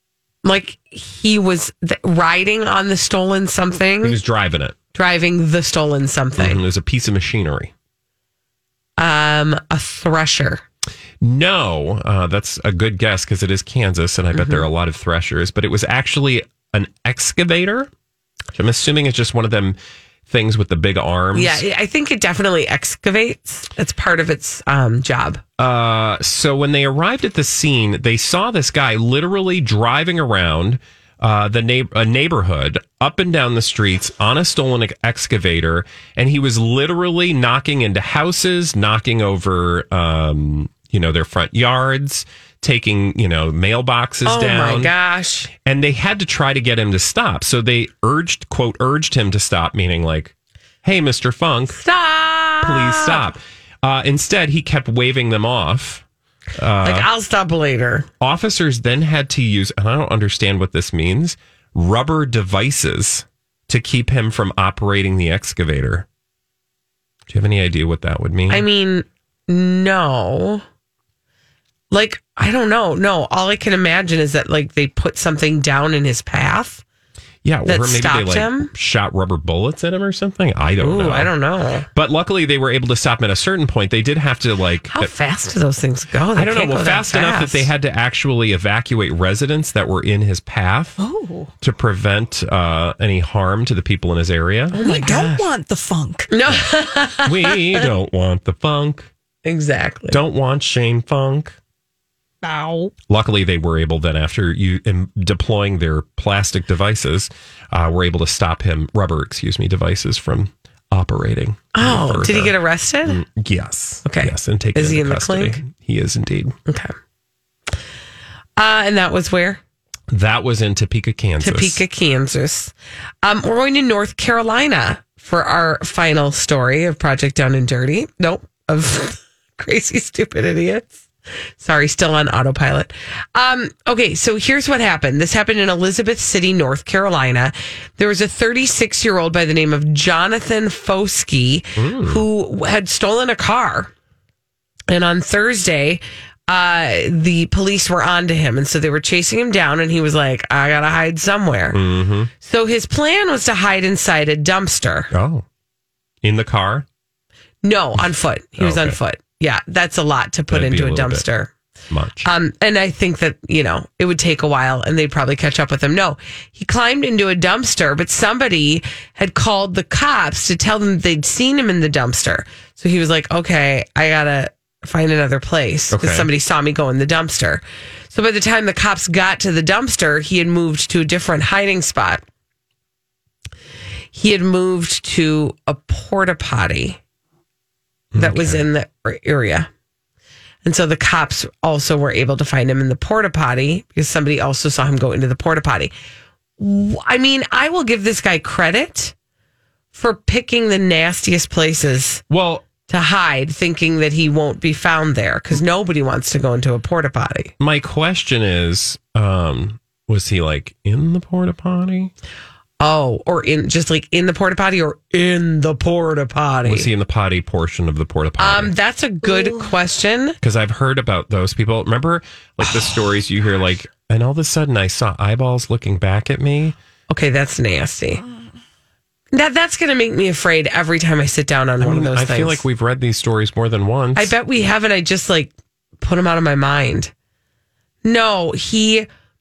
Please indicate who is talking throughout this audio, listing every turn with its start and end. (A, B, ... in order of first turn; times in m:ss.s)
0:00.4-0:04.2 A
0:04.0-0:04.8 B
0:04.9-0:06.6 A
0:06.4-0:07.7 B
0:09.0-0:10.6 A
0:11.2-0:17.9 B
0:14.3-0:14.6 A
0:18.5-0:19.8 B
0:20.3-0:21.6 B
0:21.3-0:25.4 A
0:25.6-0:44.9 B
0:44.2-0:45.5 A
0:45.6-0:51.8 B
0:51.7-0:53.2 A
0:52.6-0:56.0 B
0:56.6-0:57.1 B
0:56.8-0:58.1 A
0:58.2-1:06.0 B
1:07.3-1:08.6 B
1:08.5-1:10.6 A
1:11.9-1:16.8 A
1:17.4-1:21.3 B
1:17.6-1:18.7 A
1:20.8-1:21.9 A
1:21.9-1:25.1 B
1:24.9-1:27.7 A
1:26.3-1:31.0 B
1:31.0-1:31.5 C
1:31.6-1:34.8 B
1:34.7-1:35.5 A
1:34.8-1:36.3 C
1:36.3-1:37.8 A
1:37.2-1:39.1 B
1:39.4-1:40.2 A
1:40.1-1:41.6 B
1:42.4-1:42.9 C
1:43.1-1:52.5 B
1:51.7-1:53.2 A
1:53.0-1:56.6 B
1:54.0-1:55.6 A
1:58.6-1:59.6 A
2:00.1-2:01.8 B
2:01.4-2:10.9 A
2:11.6-2:23.9 A
2:21.8-2:22.2 B
2:24.9-2:31.8 A
2:31.7-2:32.3 B
2:32.4-2:35.1 A
2:35.1-2:35.4 B
2:36.2-2:36.8 B
2:37.6-2:41.5 A
2:38.6-2:39.0 B
2:40.5-2:41.2 B
2:41.9-2:42.3 B
2:42.2-3:02.2 A
2:55.9-2:56.3 B
3:04.1-3:07.0 A
3:08.1-3:08.6 B
3:08.2-3:09.7 A
3:10.6-3:15.9 A
3:16.6-3:19.1 A
3:19.9-3:22.2 A
3:22.3-3:22.6 B
3:22.9-3:27.5 A
3:27.6-3:32.1 B
3:32.8-3:36.9 A
3:36.6-3:38.7 B
3:38.4-3:40.4 A
3:39.2-3:39.7 C
3:40.4-3:46.8 B
3:42.6-3:42.9 A
3:47.1-3:48.2 A
3:49.3-3:52.6 A
3:51.8-3:54.3 B
3:54.1-3:57.1 A
3:58.0-3:59.1 A